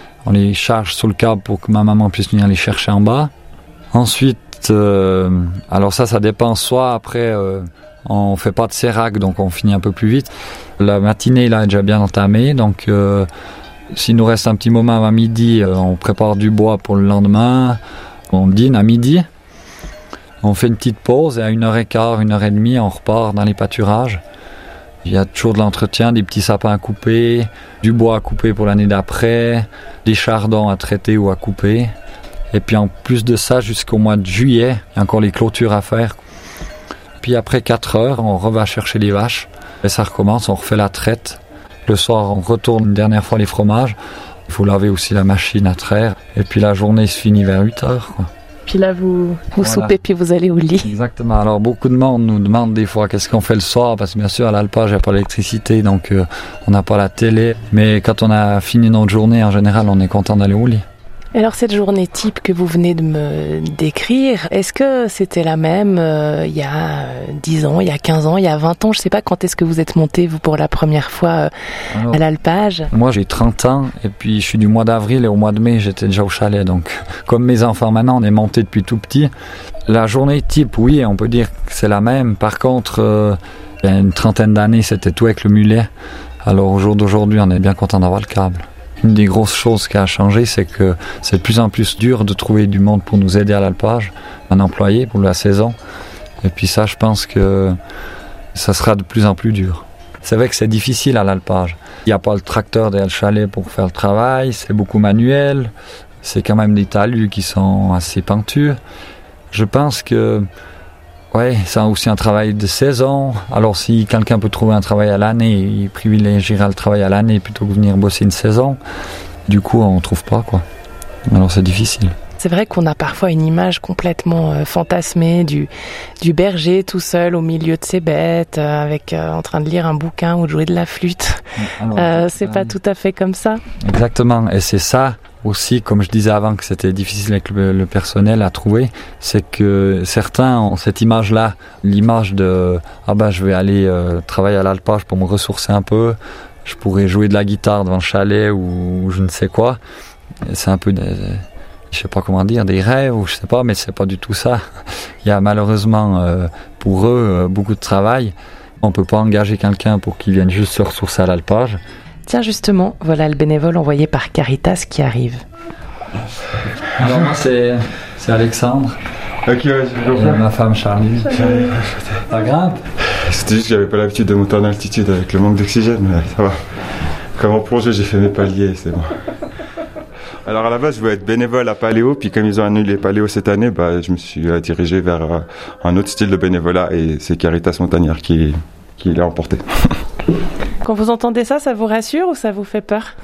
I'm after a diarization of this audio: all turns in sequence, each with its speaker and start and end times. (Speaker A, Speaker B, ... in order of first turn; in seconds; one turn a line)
Speaker A: 0.2-3.3
Speaker A: 3.9-13.3
Speaker A: 13.9-17.8
Speaker A: 18.3-19.3
Speaker A: 20.4-24.2
Speaker A: 25.0-31.9
Speaker A: 32.5-36.2
Speaker A: 37.2-44.0
Speaker A: 44.5-48.3
Speaker B: 48.7-50.9
Speaker A: 49.6-50.0
Speaker A: 50.8-60.8
Speaker B: 61.4-71.5
Speaker A: 71.9-72.2
Speaker B: 72.1-72.9
Speaker A: 72.9-79.3
Speaker A: 79.9-85.9
Speaker A: 86.5-95.8
Speaker A: 96.4-97.8
Speaker A: 98.5-105.7
Speaker A: 106.2-108.8
Speaker A: 109.5-110.5
Speaker A: 111.3-118.8
Speaker A: 119.5-120.6
Speaker A: 121.3-122.1
Speaker B: 122.4-125.7
Speaker B: 126.2-133.6
Speaker A: 131.6-132.7
Speaker A: 133.8-149.8
Speaker A: 150.5-154.6
Speaker A: 155.2-161.8
Speaker B: 162.3-165.4
Speaker A: 166.9-169.0
Speaker C: 169.4-170.4
Speaker A: 170.1-171.4
Speaker C: 171.3-172.2
Speaker A: 172.3-172.8
Speaker C: 173.1-176.7
Speaker C: 177.4-179.2
Speaker C: 180.5-190.0
Speaker B: 190.8-193.2